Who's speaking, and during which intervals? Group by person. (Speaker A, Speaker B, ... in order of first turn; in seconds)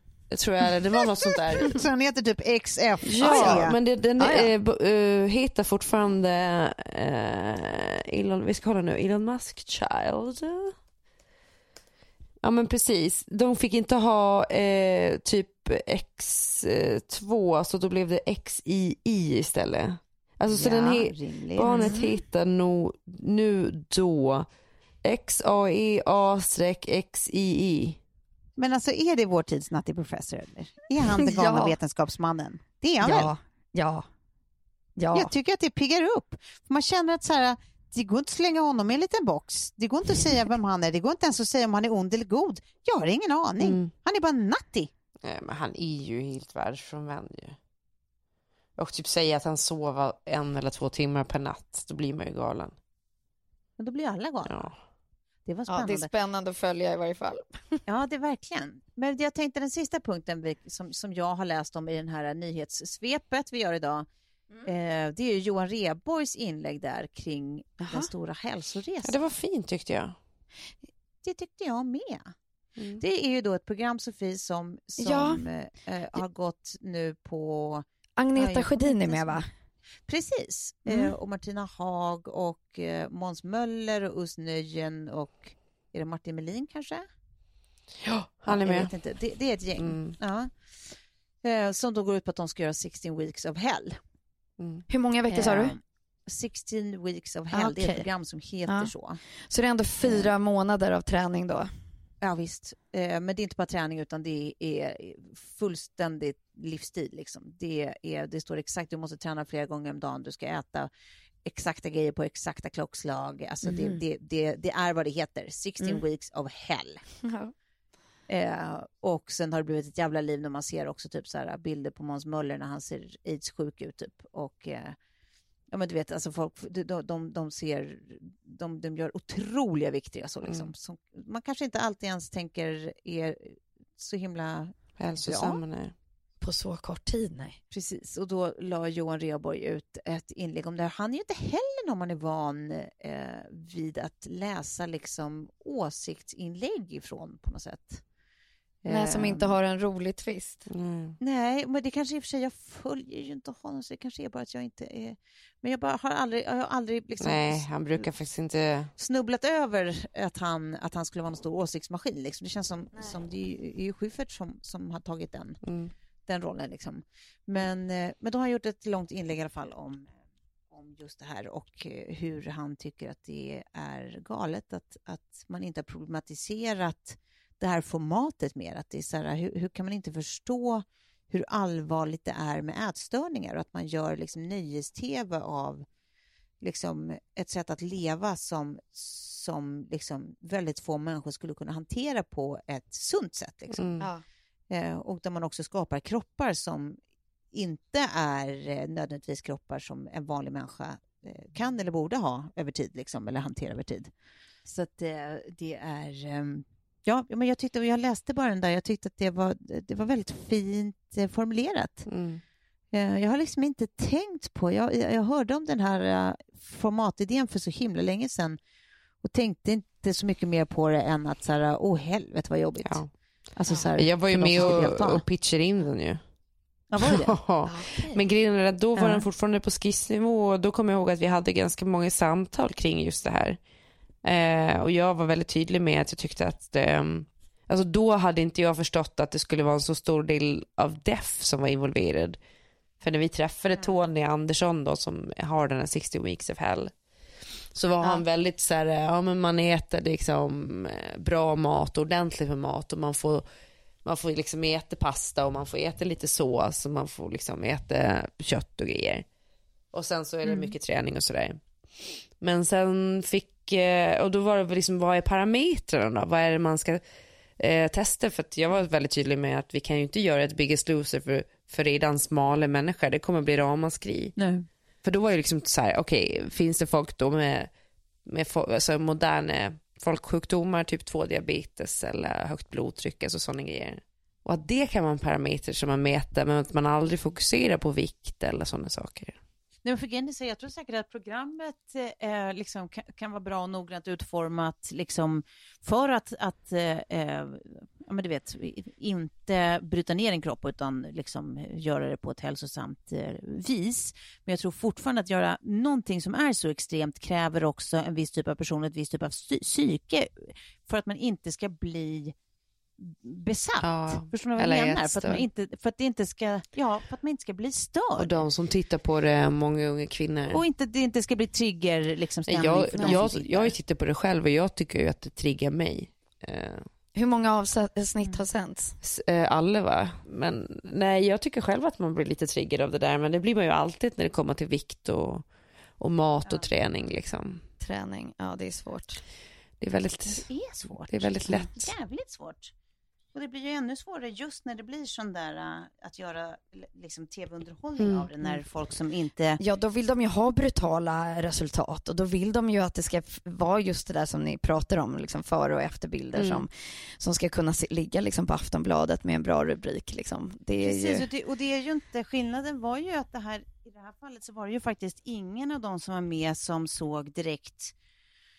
Speaker A: 0.3-1.8, 3.1-10.7, 12.4-24.5, 25.0-28.0, 43.6-43.9, 45.2-47.6, 48.8-52.7, 54.5-54.7, 69.0-70.1, 88.1-88.9, 89.8-90.2, 94.6-94.8, 130.4-130.7, 135.0-135.9, 150.7-151.2, 157.2-158.9, 165.6-165.9, 193.7-194.1, 212.1-212.4, 224.0-226.2, 227.0-233.6, 234.2-242.4, 243.0-246.9, 247.7-253.4, 254.0-259.2, 259.9-261.6, 262.4-267.0, 267.6-274.4, 275.0-277.7, 278.2-289.4, 313.8-315.4, 318.2-320.6, 322.5-326.9, 329.0-335.4, 336.0-337.6, 339.8-340.5, 341.1-341.9, 348.0-348.3, 356.4-356.6
Speaker B: 1.2-3.8, 20.5-21.9, 28.6-33.3, 35.1-44.9, 53.8-54.7, 55.5-56.1, 57.9-64.1, 64.6-69.2, 71.2-72.3, 73.0-79.5, 80.1-87.1, 88.5-90.5, 91.4-94.0, 95.3-99.2, 100.0-100.3, 102.2-110.9, 111.4-117.0, 118.3-125.0, 125.7-135.6, 137.7-148.0, 148.8-149.6, 151.2-158.1, 159.0-165.6, 166.3-170.1, 170.7-185.8, 186.6-194.0, 194.7-197.0, 197.5-204.1, 204.6-212.1, 212.9-218.6, 219.2-223.0, 223.5-225.2, 226.9-227.4, 228.9-229.2, 260.4-260.7, 274.4-274.6, 289.8-312.3, 313.0-318.4, 320.5-323.7, 340.3-342.7, 343.3-349.6, 360.8-367.9
Speaker C: 3.2-3.6, 4.2-4.5, 21.6-22.2, 31.1-31.7, 33.0-34.0, 35.0-35.3, 55.7-57.8, 67.8-68.1, 75.0-75.4, 78.2-79.5, 94.9-95.7, 97.5-98.0, 99.5-101.7, 113.6-114.0, 117.2-117.5, 136.4-137.6, 148.9-150.7, 227.6-228.2, 323.0-323.2, 327.1-328.9, 337.8-339.2, 349.6-361.2